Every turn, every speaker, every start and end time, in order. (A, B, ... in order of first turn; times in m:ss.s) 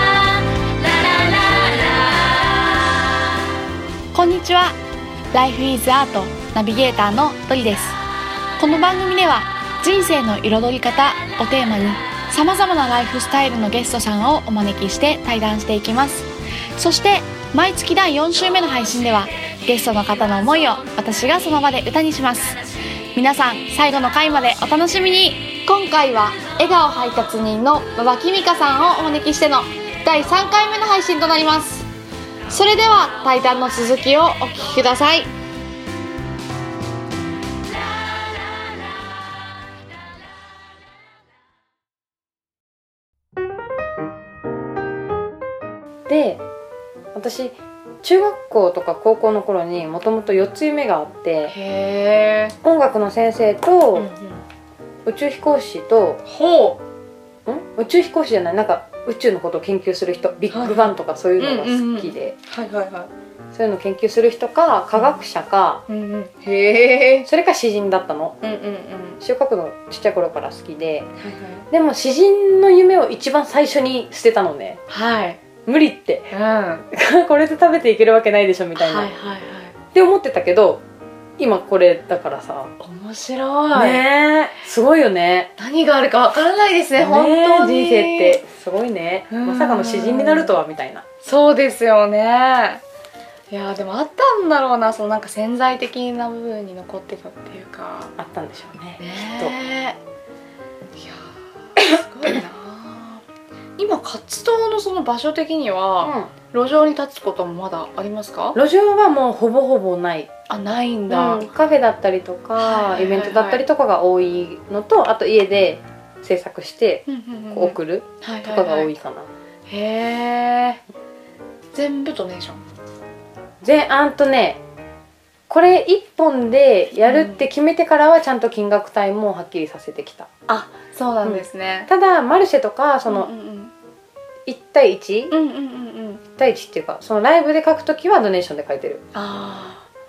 0:00.8-0:02.3 A
0:04.1-0:04.8 A
0:05.3-0:08.0 A
0:08.6-0:31.9 A
0:32.5-0:35.3 A
0:46.1-0:46.4 B
0:47.2-0:51.6 B
0:51.5-0:52.6 A
0:52.6-0:54.1 B
0:54.0-0:54.4 A
0:55.1-0:56.2 B
0:56.2-0:56.8 A
0:57.5-1:02.4 B
1:00.5-1:03.1 A
1:03.5-1:05.8 B
1:05.9-1:07.3 A
1:07.3-1:08.4 B
1:08.4-1:09.2 A
1:09.2-1:11.1 B
1:11.2-1:11.7 A
1:11.7-1:14.8 B
1:14.9-1:15.4 A
1:15.7-1:16.3 B
1:16.3-1:16.9 A
1:16.9-1:19.1 B
1:18.8-1:19.8 A
1:19.9-1:20.8 B
1:21.4-1:22.7 B
1:22.8-1:24.1 A
1:23.7-1:25.5 B
1:25.6-1:28.4 A
1:27.0-1:31.0 B
1:29.3-1:30.6 A
1:31.2-1:32.8 A
1:33.5-1:38.1 A
1:38.2-1:39.6 B
1:39.0-1:40.0 A
1:41.0-1:43.2 A
1:43.8-1:48.6 A
1:46.0-1:46.3 B
1:48.6-1:50.3 B
1:50.5-1:51.5 A
1:51.1-1:59.3 B
1:52.6-1:53.6 A
1:57.1-1:58.9 A
1:59.7-2:00.8 A
2:01.7-2:02.6 A
2:03.6-2:04.6 B
2:05.5-2:10.3 B
2:07.0-2:07.4 A
2:10.5-2:11.9 A
2:11.2-2:13.3 B
2:13.1-2:13.7 A
2:14.5-2:15.4 B
2:15.3-2:16.2 A
2:16.4-2:19.0 B
2:19.1-2:19.8 A